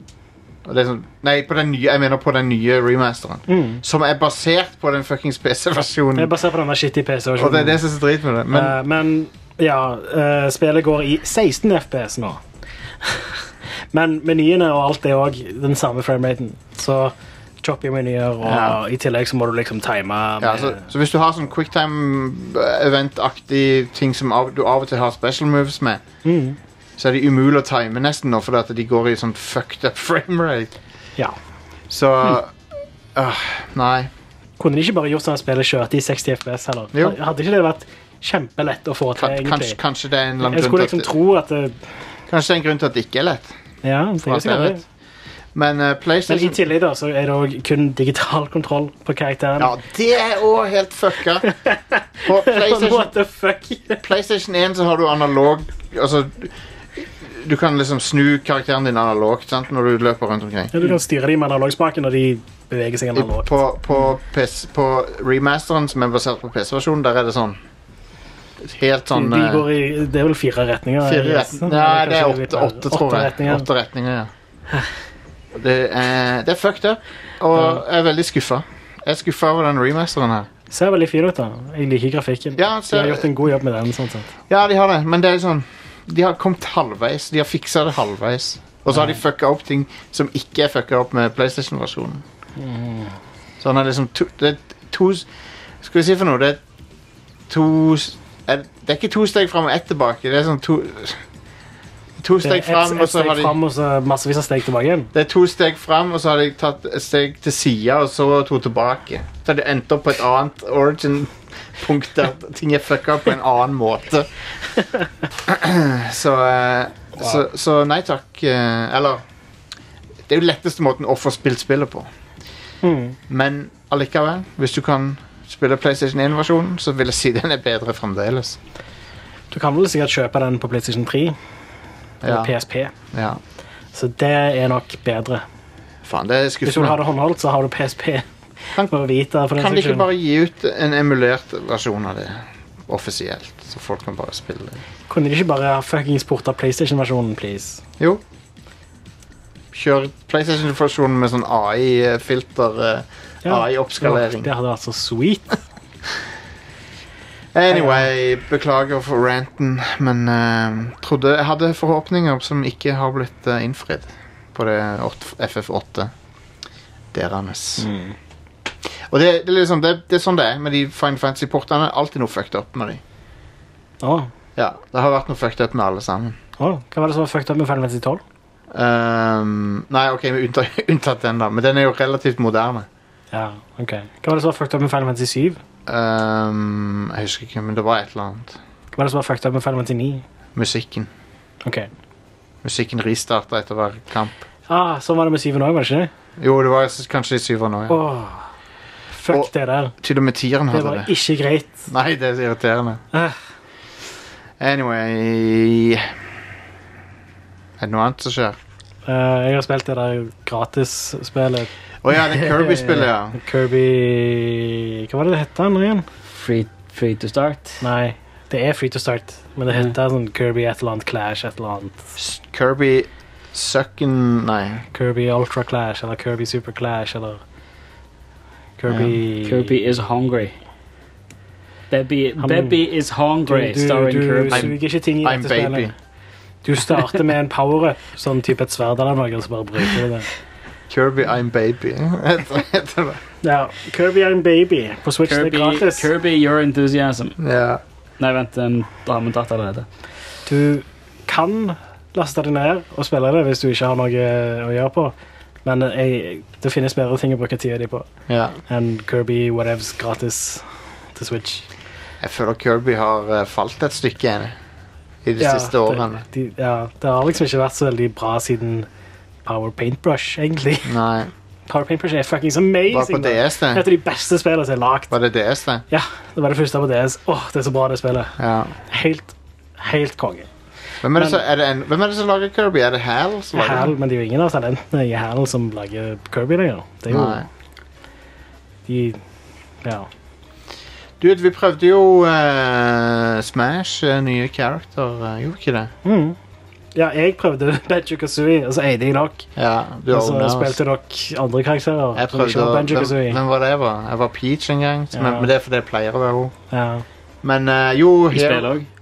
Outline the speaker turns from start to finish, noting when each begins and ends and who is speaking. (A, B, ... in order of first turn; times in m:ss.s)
0:00.6-0:06.3 A
0:03.5-0:03.8 B
0:06.1-0:07.8 B
0:07.4-0:08.8 A
0:08.5-0:12.4 B
0:13.0-0:20.8 B
0:18.4-0:18.8 A
0:20.4-0:26.0 A
0:26.2-0:26.6 B
0:27.0-0:30.7 A
0:31.9-0:32.6 A
0:33.1-0:34.1 A
0:34.6-0:39.8 B
0:39.2-0:41.1 A
0:40.4-0:41.8 B
0:42.3-0:43.5 A
0:43.8-0:44.8 B
0:44.2-0:44.8 A
0:45.5-0:46.6 A
0:46.3-0:49.7 B
0:49.6-0:51.5 A
0:51.4-0:54.0 B
0:52.2-0:53.1 A
0:54.0-1:00.7 A
1:00.7-1:03.6 B
1:03.1-1:07.6 A
1:08.6-1:09.7 A
1:09.1-1:13.6 B
1:11.0-1:14.3 A
1:15.5-1:20.5 A
1:20.7-1:24.3 B
1:22.6-1:23.3 A
1:24.5-1:32.2 A
1:32.6-1:33.2 B
1:33.6-1:35.3 A
1:35.8-1:36.6 A
1:37.5-1:41.2 A
1:42.2-1:43.6 A
1:42.4-1:45.1 B
1:45.1-1:54.3 A
1:55.3-1:59.2 A
2:00.3-2:02.1 A
2:02.8-2:03.2 B
2:03.3-2:08.6 A
2:09.5-2:11.4 B
2:12.2-2:12.5 A
2:12.2-2:12.9 B
2:13.1-2:13.4 A
2:13.9-2:15.4 B
2:16.0-2:17.0 A
2:16.6-2:20.1 B
2:19.6-2:24.8 A
2:25.1-2:27.8 B
2:29.7-2:34.5 A
2:33.4-2:35.6 B
2:37.5-2:46.1 A
2:37.7-2:38.0 B
2:47.1-2:47.9 A
2:47.8-2:48.1 B
2:48.8-2:53.0 A
2:54.0-2:54.3 B
2:54.6-2:56.4 A
2:56.6-2:58.2 B
2:58.7-3:02.9 A
3:03.3-3:05.6 B
3:05.9-3:08.6 A
3:09.0-3:10.2 B
3:10.5-3:11.1 A
3:11.6-3:11.9 B
3:12.6-3:14.5 A
3:14.7-3:16.1 B
3:16.4-3:18.0 A
3:17.9-3:18.4 B
3:19.1-3:19.9 B
3:20.0-3:21.1 A
3:20.7-3:21.9 B
3:21.9-3:23.0 A
3:24.6-3:26.1 A
3:27.8-3:28.6 A
3:29.0-3:31.7 B
3:32.0-3:33.4 A
3:32.4-3:36.0 B
3:36.3-3:37.8 C
3:37.8-3:42.0 B
3:42.2-3:44.8 A
3:44.9-3:47.4 B
3:48.8-3:49.7 B
3:49.4-3:50.6 C
3:51.9-3:54.7 C
3:52.4-3:52.8 B
3:53.4-3:55.9 B
3:54.5-3:55.9 A
3:56.6-4:00.3 B
4:00.9-4:03.2 A
4:03.4-4:06.1 B
4:05.2-4:07.4 C
4:07.4-4:07.8 A
4:08.2-4:09.8 C
4:10.4-4:15.1 B
4:15.6-4:18.0 B
4:18.3-4:18.6 A
4:18.7-4:21.6 B
4:22.2-4:24.6 A
4:25.2-4:26.2 A
4:25.4-4:28.9 B
4:29.4-4:30.9 B
4:30.8-4:31.3 A
4:31.7-4:35.1 B
4:32.9-4:33.8 A
4:35.1-4:35.8 A
4:35.9-4:38.4 B
4:38.4-4:38.8 A
4:38.9-4:40.5 B
4:41.0-4:43.9 A
4:41.1-4:41.4 B
4:43.5-4:47.5 B
4:47.1-4:47.5 A
4:48.9-4:49.2 B
4:51.2-4:55.9 A
4:56.0-4:56.4 B
4:56.9-4:59.5 B
4:59.6-5:00.8 A
5:00.1-5:03.4 B
5:02.1-5:06.5 A
5:05.1-5:05.5 B
5:06.7-5:07.0 B
5:07.4-5:08.7 A
5:08.3-5:08.9 C